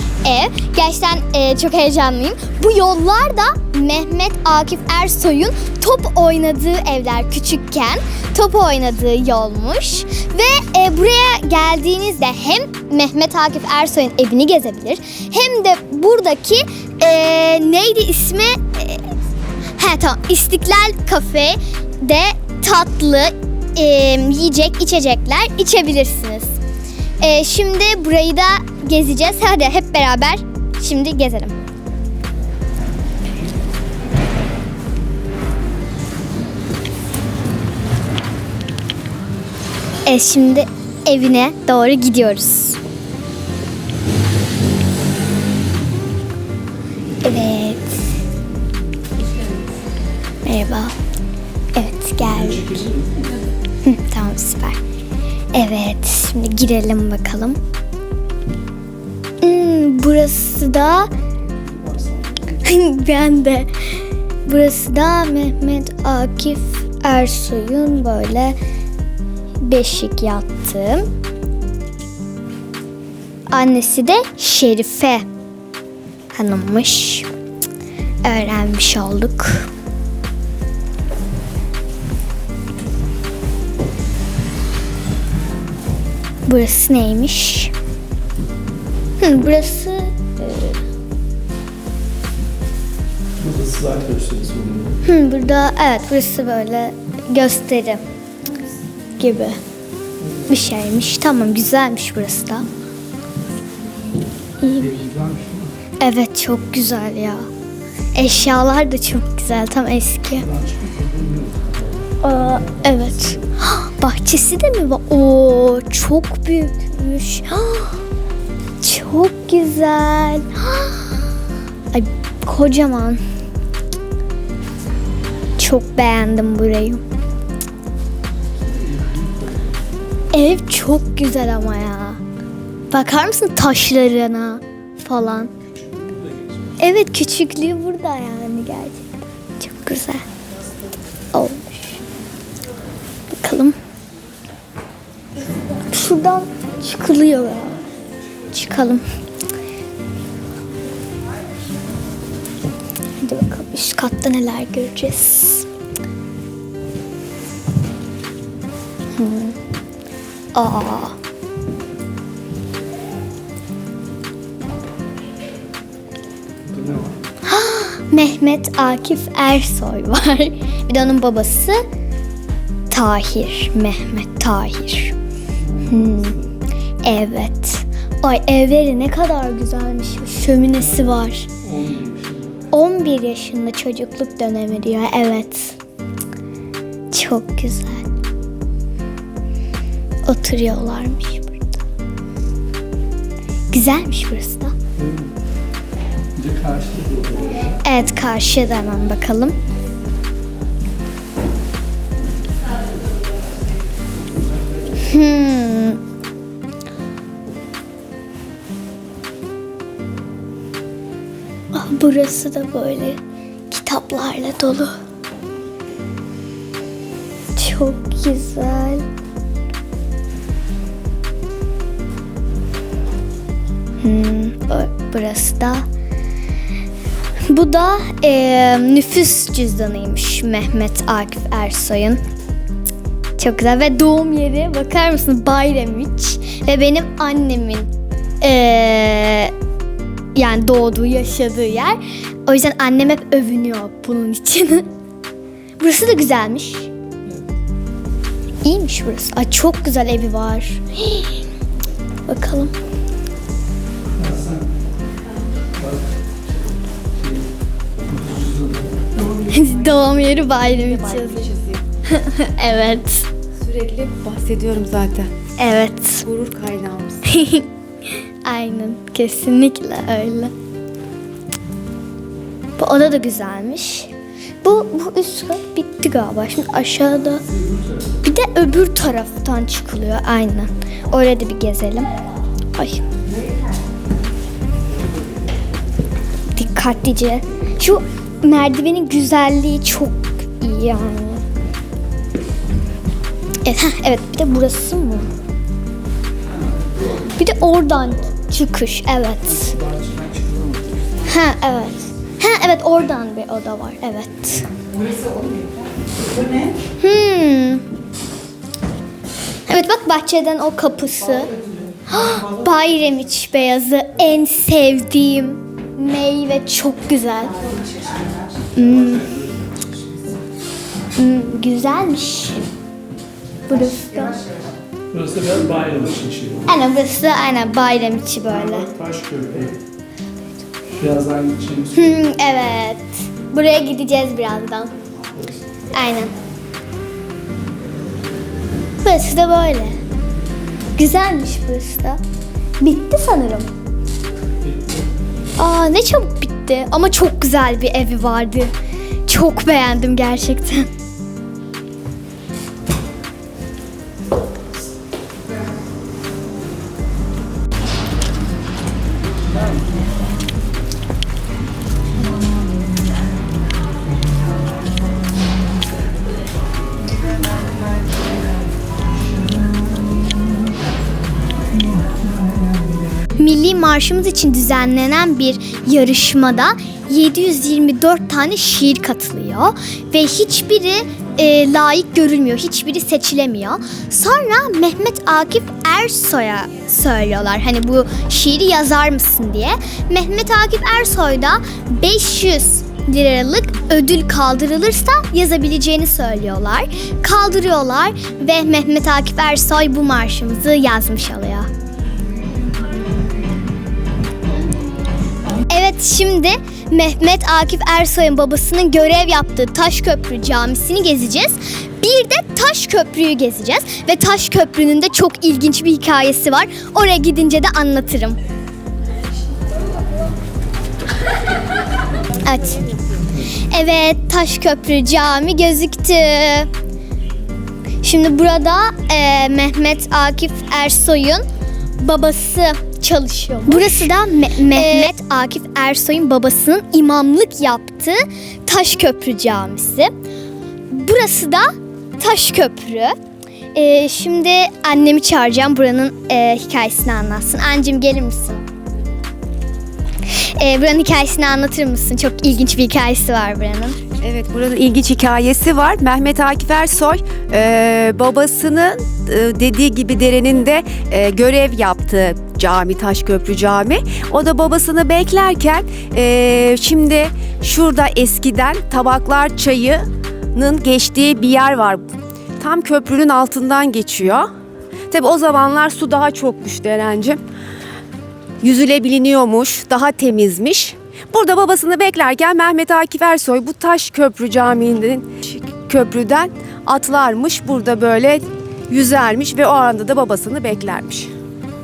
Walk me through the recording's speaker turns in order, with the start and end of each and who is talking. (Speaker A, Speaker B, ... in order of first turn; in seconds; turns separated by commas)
Speaker A: 0.2-19.1, Speaker A: 19.7-26.6, Speaker A: 27.2-31.6, Speaker A: 40.0-42.8, Speaker A: 47.2-48.2, Speaker A: 50.4-51.0, Speaker A: 51.7-52.8, Speaker B: 52.3-53.4, Speaker A: 53.8-54.8, Speaker A: 55.5-57.6, Speaker A: 59.4-61.1, Speaker B: 61.4-62.6, Speaker A: 62.6-68.6, Speaker A: 69.6-71.1, Speaker A: 73.5-75.3, Speaker A: 76.3-77.3, Speaker A: 78.2-79.7, Speaker A: 86.5-87.7, Speaker A: 89.2-90.8, Speaker B: 93.4-95.0, Speaker A: 95.0-98.0, Speaker A: 99.2-99.6, Speaker A: 100.5-102.7, Speaker A: 104.6-104.9, Speaker B: 104.8-105.7, Speaker A: 106.0-107.5, Speaker A: 108.1-110.5, Speaker B: 110.4-113.4, Speaker A: 112.2-118.0, Speaker A: 118.8-121.2, Speaker A: 121.9-123.2, Speaker A: 125.6-127.0, Speaker B: 128.7-129.8, Speaker A: 130.3-132.2, Speaker A: 132.9-135.5, Speaker B: 135.7-136.8, Speaker A: 136.8-140.3, Speaker A: 141.3-142.0, Speaker A: 143.3-143.8, Speaker A: 145.8-147.8, Speaker A: 148.5-149.1, Speaker A: 153.2-155.7, Speaker A: 159.2-159.6, Speaker A: 160.5-161.2, Speaker B: 166.7-167.2, Speaker A: 167.4-171.8, Speaker A: 172.9-175.2, Speaker B: 175.6-176.5, Speaker A: 175.9-176.4, Speaker A: 177.0-181.5, Speaker B: 180.8-182.6, Speaker A: 182.7-185.8, Speaker A: 187.1-188.1, Speaker A: 190.2-191.8, Speaker A: 193.7-194.8, Speaker B: 195.0-195.3, Speaker B: 196.4-197.8, Speaker A: 197.8-199.6, Speaker A: 205.0-206.0, Speaker A: 211.7-215.0, Speaker A: 217.6-219.1, Speaker A: 224.0-225.9, Speaker A: 227.5-232.2, Speaker A: 233.4-237.9, Speaker A: 238.4-239.5, Speaker A: 240.3-244.9, Speaker A: 245.8-246.9, Speaker A: 248.6-251.4, Speaker A: 252.3-252.7, Speaker B: 254.2-254.7, Speaker B: 255.8-256.1, Speaker B: 257.2-257.5, Speaker B: 258.1-259.3, Speaker A: 259.4-261.5, Speaker C: 260.8-261.8, Speaker A: 262.1-263.3, Speaker C: 263.6-265.3, Speaker A: 265.6-266.3, Speaker C: 266.3-267.2, Speaker A: 267.2-270.5, Speaker A: 272.8-274.1, Speaker A: 274.6-277.4, Speaker A: 278.2-282.1, Speaker A: 282.8-283.0, Speaker A: 286.5-291.4, Speaker A: 293.6-295.3, Speaker A: 297.4-299.8, Speaker B: 299.6-301.0, Speaker A: 301.3-304.7, Speaker C: 306.4-306.7, Speaker A: 307.0-307.9, Speaker A: 309.7-317.7, Speaker A: 318.8-319.4, Speaker A: 321.1-322.6, Speaker A: 323.7-324.5, Speaker B: 325.1-326.7, Speaker A: 326.7-328.9, Speaker B: 328.5-329.8, Speaker B: 330.9-332.1, Speaker A: 331.9-334.9, Speaker A: 335.9-336.3, Speaker A: 339.0-340.0, Speaker A: 340.9-342.2, Speaker A: 342.8-343.7, Speaker B: 344.6-345.0, Speaker A: 345.6-348.7, Speaker A: 349.3-350.9, Speaker A: 373.4-401.7, Speaker A: 405.7-418.4, Speaker A: 422.4-422.9, Speaker A: 423.4-426.7, Speaker A: 428.0-431.4, Speaker A: 432.0-440.1, Speaker A: 440.9-443.2, Speaker A: 443.7-448.6, Speaker A: 450.3-454.0, Speaker C: 454.2-472.0, Speaker C: 472.6-474.5, Speaker C: 475.1-477.4, Speaker C: 478.6-491.3